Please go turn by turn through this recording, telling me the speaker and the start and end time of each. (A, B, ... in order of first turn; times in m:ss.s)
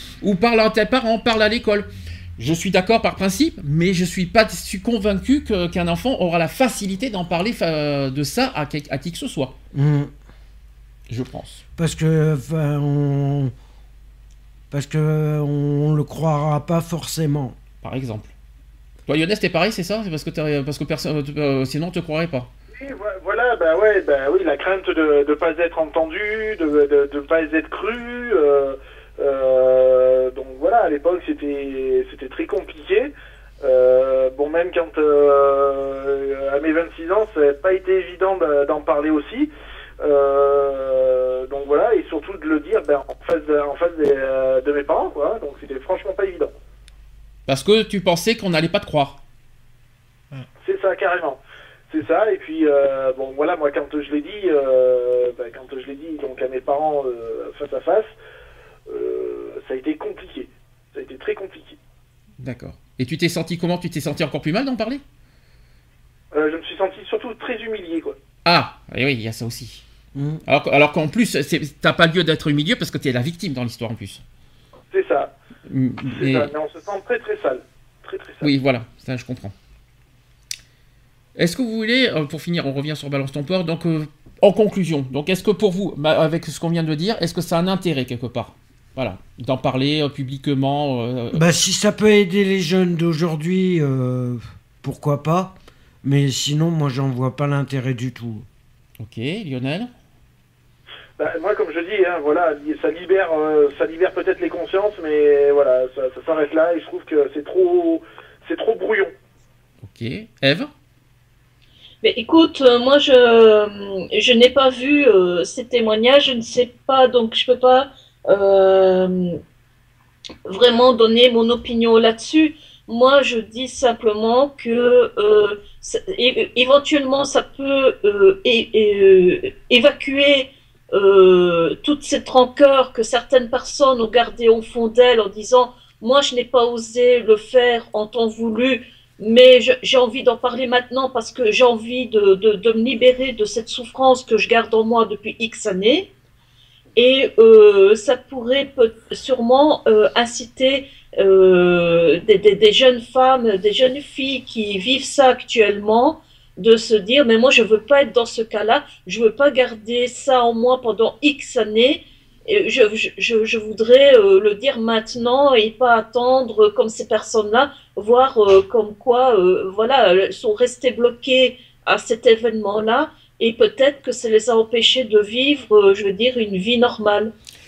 0:00.2-0:09.5 A
0:09.7-0:10.1 B
0:11.1-0:11.6 A
0:11.8-0:13.5 B
0:14.7-0:17.6 B
0:17.8-0:18.3 A
0:19.1-0:22.5 A
0:22.8-0:39.5 C
0:40.0-0:46.5 C
0:47.5-0:49.2 A
0:50.6-0:51.4 C
0:51.9-0:58.1 C
0:58.9-1:01.8 C
1:02.4-1:05.0 A
1:06.3-1:08.2 C
1:08.4-1:09.8 A
1:10.1-1:10.4 B
1:10.4-1:14.2 A
1:14.9-1:15.3 C
1:15.7-1:16.5 A
1:16.1-1:18.5 C
1:18.4-1:19.5 A
1:21.4-1:31.5 A
1:31.3-1:38.4 B
1:39.0-1:39.9 A
1:41.2-1:49.1 C
1:49.8-1:50.7 A
1:52.0-1:59.4 D
2:00.5-2:26.1 D
2:27.0-2:57.3 D